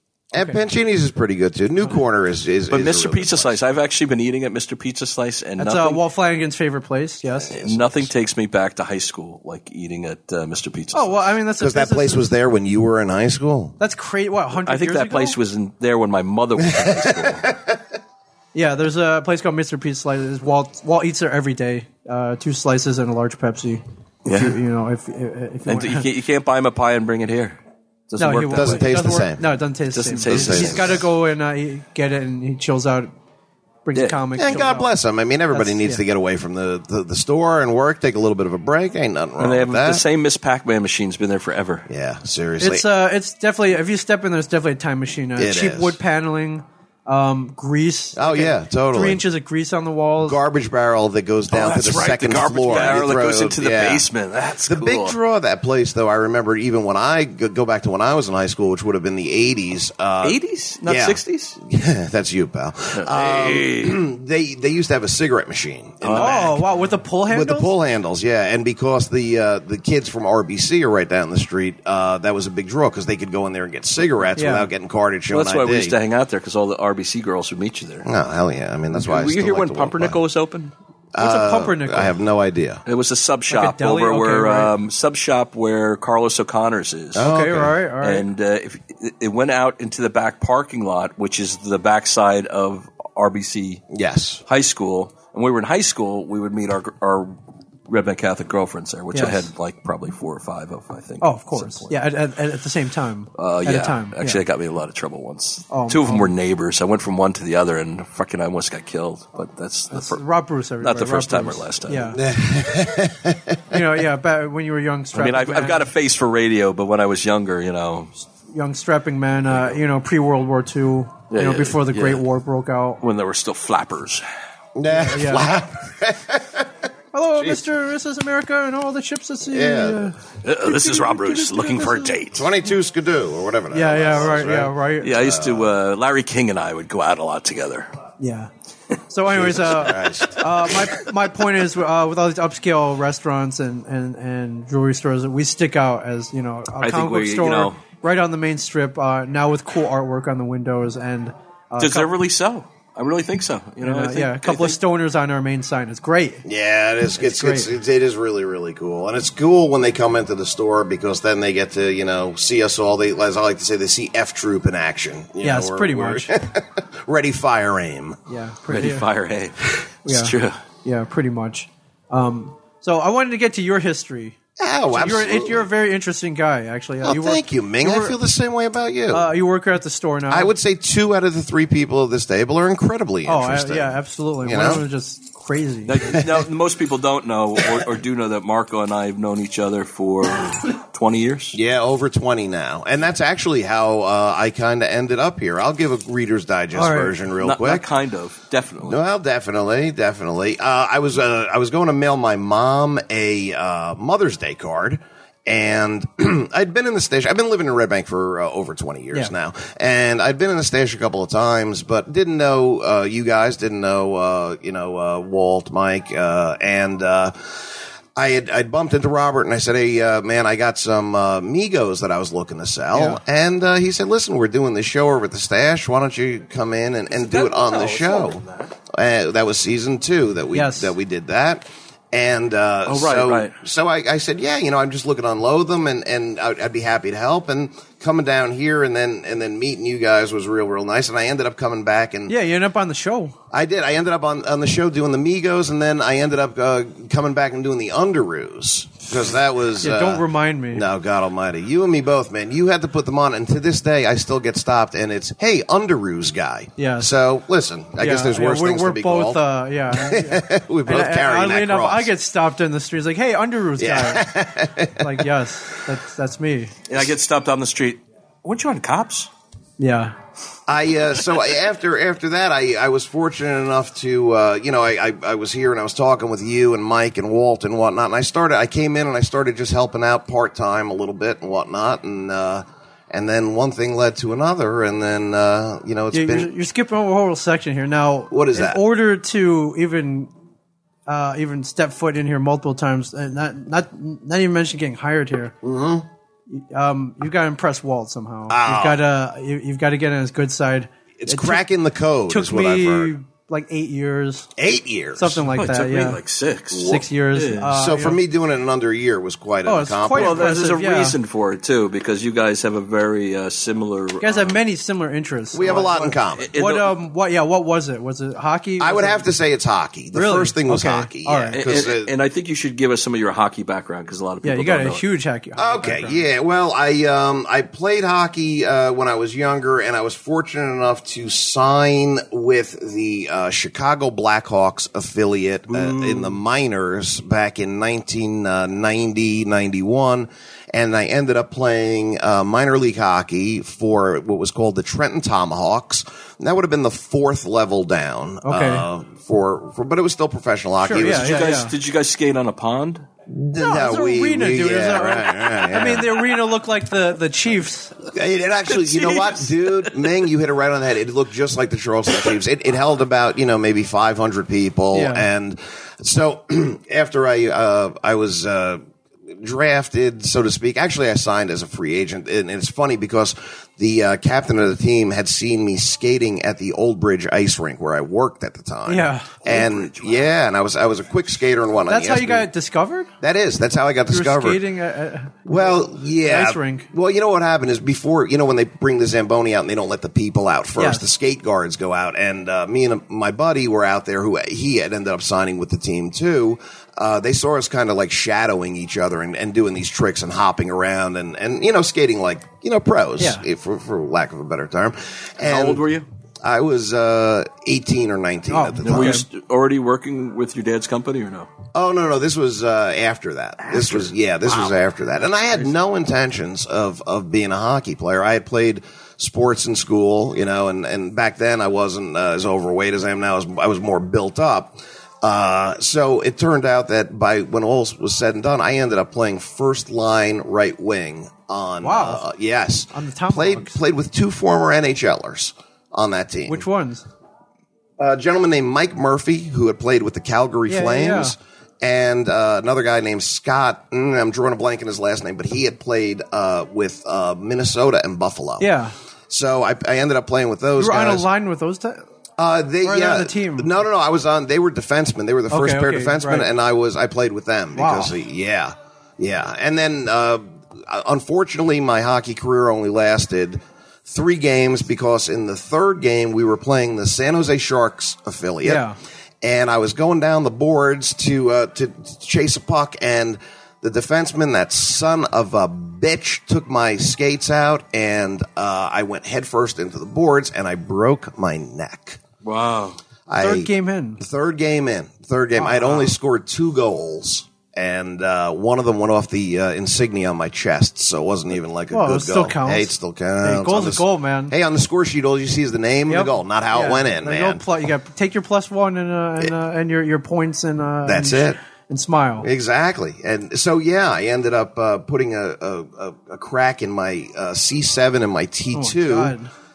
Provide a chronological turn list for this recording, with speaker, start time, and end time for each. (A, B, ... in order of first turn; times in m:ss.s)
0:00.3-0:03.6 A
0:00.3-0:00.6 B
0:02.7-0:06.0 C
0:05.6-0:07.6 B
0:07.5-0:08.1 A
0:07.5-0:11.2 C
0:10.9-0:12.2 B
0:11.6-0:13.8 A
0:13.8-0:15.4 B
0:14.6-0:17.5 C
0:16.7-0:17.8 A
0:18.5-0:26.0 B
0:24.2-0:24.6 C
0:25.7-0:29.1 C
0:28.2-0:33.1 B
0:28.5-0:29.4 A
0:29.9-0:31.0 C
0:30.2-0:31.0 A
0:33.8-0:34.9 B
0:33.9-0:34.2 C
0:34.4-0:40.0 A
0:35.5-0:36.0 B
0:39.4-0:41.9 C
0:41.9-0:42.8 A
0:42.6-0:50.4 B
0:45.4-0:46.0 A
0:48.2-0:49.2 A
0:50.2-0:54.1 A
0:51.5-0:55.2 C
0:54.6-1:06.6 A
1:00.2-1:01.6 C
1:02.9-1:04.0 C
1:06.0-1:06.5 C
1:06.2-1:07.7 B
1:07.3-1:16.0 A
1:14.4-1:14.7 B
1:15.3-1:18.1 C
1:18.0-1:20.2 A
1:18.9-1:20.7 C
1:21.1-1:22.8 A
1:21.2-1:22.1 B
1:22.8-1:27.3 C
1:23.5-1:24.7 B
1:27.1-1:27.7 A
1:27.2-1:28.2 B
1:28.0-1:33.8 C
1:33.9-1:34.4 A
1:34.5-1:37.4 C
1:37.9-1:42.0 C
1:39.1-1:39.5 B
1:41.2-1:44.4 B
1:43.4-1:50.2 C
1:45.7-1:46.3 B
1:49.9-1:52.2 B
1:50.8-1:52.1 C
1:52.2-1:53.8 A
1:53.7-1:55.9 B
1:55.1-1:58.1 C
1:58.5-2:03.0 B
2:01.3-2:02.2 C
2:03.0-2:04.2 C
2:04.8-2:06.7 A
2:04.9-2:05.5 B
2:07.1-2:12.2 B
2:09.5-2:10.1 A
2:10.4-2:12.5 C
2:12.3-2:15.7 A
2:13.7-2:15.2 B
2:15.0-2:17.9 C
2:18.2-2:18.5 B
2:19.1-2:32.1 B
2:19.3-2:20.4 A
2:26.8-2:27.8 C
2:31.8-2:34.8 C
2:33.8-2:36.4 B
2:36.4-2:48.2 A
2:37.2-2:37.7 B
2:45.4-2:46.3 B
2:48.3-2:49.1 B
2:48.7-2:50.6 C
2:50.0-2:54.4 B
2:54.6-2:55.7 A
2:54.9-2:58.2 B
2:57.0-2:59.3 A
2:59.1-3:00.5 B
3:00.3-3:04.8 A
3:03.2-3:06.2 B
3:05.8-3:11.6 C
3:11.5-3:17.8 A
3:16.7-3:17.2 B
3:17.4-3:19.0 C
3:18.8-3:37.6 A
3:38.2-4:02.3 A
3:42.9-3:43.2 B
3:47.1-3:48.7 C
3:50.5-3:50.9 B
3:52.8-3:53.6 C
4:02.3-4:03.3 B
4:03.5-4:22.1 A
4:09.8-4:10.8 B
4:16.8-4:17.1 B
4:18.0-4:24.3 B
4:23.8-4:25.3 A
4:25.0-4:26.8 B
4:26.9-4:29.3 C
4:29.8-4:30.1 B
4:30.7-4:46.5 A
4:46.1-4:50.3 B
4:48.3-4:48.8 A
4:51.1-4:55.5 B
4:55.6-4:56.1 A
4:56.5-5:01.6 B
4:58.5-4:59.0 A
5:01.2-5:03.1 A
5:02.3-5:04.5 B
5:04.6-5:05.4 A
5:05.2-5:06.2 B
5:05.5-5:07.7 C
5:06.7-5:08.2 B
5:07.7-5:10.5 A
5:09.6-5:11.2 B
5:10.1-5:14.6 C
5:14.2-5:19.2 B
5:15.5-5:16.5 A
5:16.4-5:16.9 C
5:18.8-5:22.1 A
5:20.1-5:21.6 B
5:21.5-5:25.0 C
5:24.4-5:26.2 B
5:25.6-5:51.5 A
5:35.7-5:36.4 C
5:48.4-5:48.8 B
5:50.8-5:51.7 B
5:51.0-5:53.1 C
5:53.3-5:56.2 A
5:53.6-5:58.0 B
5:58.1-6:22.5 A
5:58.7-6:00.1 C
6:04.9-6:05.3 B
6:18.8-6:19.3 B
6:19.4-6:20.3 C
6:21.9-6:23.1 B
6:23.2-6:24.6 A
6:24.1-6:26.9 B
6:25.4-6:45.8 A
6:30.8-6:31.1 B
6:43.2-6:43.4 B
6:45.4-6:46.0 C
6:46.4-6:49.2 A
6:48.5-6:49.2 B
6:48.8-6:51.5 C
6:51.7-7:16.6 A
6:53.6-6:54.7 C
7:11.8-7:12.2 B
7:12.9-7:13.7 B
7:16.5-7:17.0 B
7:18.0-7:28.7 A
7:20.7-7:21.4 B
7:28.6-7:28.9 B
7:29.3-7:31.2 A
7:30.8-7:32.0 B
7:32.4-7:48.8 A
7:32.8-7:33.7 B
7:35.5-7:36.5 B
7:37.8-7:38.1 B
7:48.6-7:49.0 B
7:49.4-8:02.2 A
8:02.4-8:03.0 C
8:03.3-8:17.6 A
8:03.4-8:04.2 B
8:05.6-8:06.1 B
8:11.9-8:12.9 B
8:13.4-8:14.5 B
8:16.1-8:22.5 B
8:21.0-8:21.6 A
8:22.4-8:29.3 A
8:28.7-8:29.5 B